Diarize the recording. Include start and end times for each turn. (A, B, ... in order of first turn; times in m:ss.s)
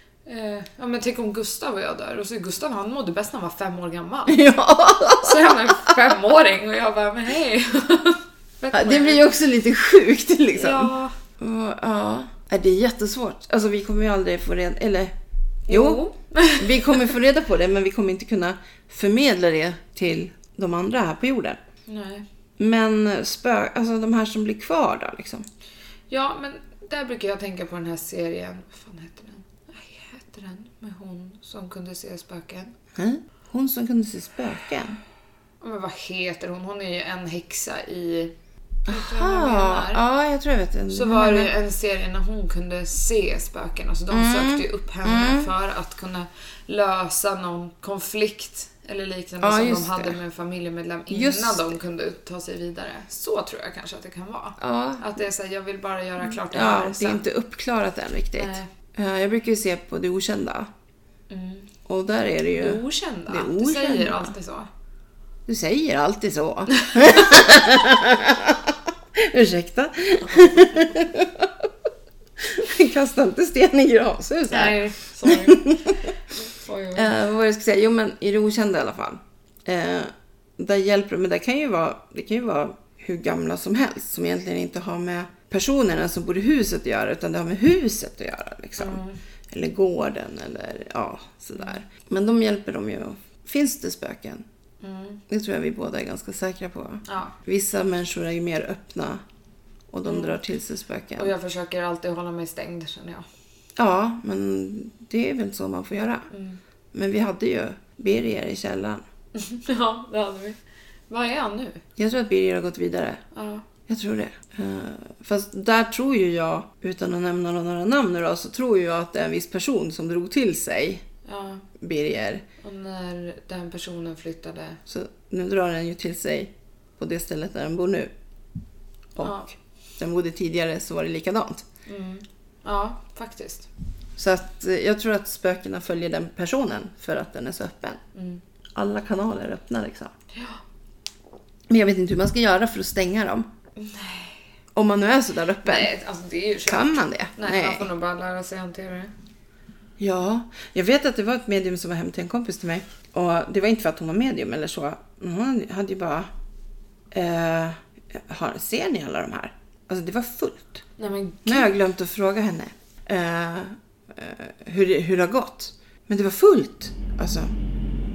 0:00.2-0:04.4 A
0:04.3-0:05.9 B
0:05.2-0:09.2 A
0:08.7-0:15.1 B
0:10.5-0:11.1 A
0:15.7-0:16.0 B
0:15.7-0:17.1 A
0:16.6-0:21.6 B
0:21.9-0:22.2 A
0:22.6-0:25.5 B
0:26.1-0:32.7 A
0:32.9-0:35.0 B
0:35.6-0:38.3 A
0:38.9-0:40.0 A
0:38.9-0:41.5 B
0:40.9-0:57.2 A
0:44.1-0:45.5 B
0:49.4-0:50.2 B
0:51.1-0:51.7 B
0:54.6-0:55.0 B
0:56.2-1:00.7 B
0:58.4-0:58.7 A
1:01.3-1:01.7 A
1:01.8-1:04.3 B
1:02.6-1:04.7 A
1:05.5-1:11.7 B
1:06.8-1:07.2 A
1:10.3-1:10.7 A
1:12.4-1:15.9 B
1:14.5-1:17.1 A
1:17.0-1:34.4 B
1:28.8-1:29.2 A
1:34.8-1:35.2 A
1:35.3-1:39.2 B
1:37.0-1:37.3 A
1:39.9-1:41.3 B
1:40.0-1:40.4 A
1:41.2-1:43.2 A
1:43.8-1:46.3 B
1:46.3-1:46.6 A
1:46.9-1:49.0 B
1:49.3-1:50.6 A
1:51.1-1:51.8 A
1:52.0-1:53.2 B
1:53.3-1:53.6 A
1:53.9-2:01.0 B
2:01.2-2:01.7 A
2:01.8-2:02.4 B
2:02.6-2:04.8 A
2:04.9-2:08.1 B
2:09.2-2:09.4 B
2:09.2-2:09.5 A
2:10.0-2:11.6 B
2:11.9-2:13.7 A
2:14.2-2:18.0 B
2:18.1-2:18.4 A
2:18.7-2:20.1 B
2:20.3-2:20.6 A
2:21.7-2:23.5 B
2:23.8-2:24.4 A
2:24.7-2:25.9 B
2:25.6-2:29.1 A
2:26.7-2:27.9 B
2:30.0-2:36.3 B
2:37.1-2:40.8 B
2:41.0-2:41.7 A
2:41.4-2:47.5 B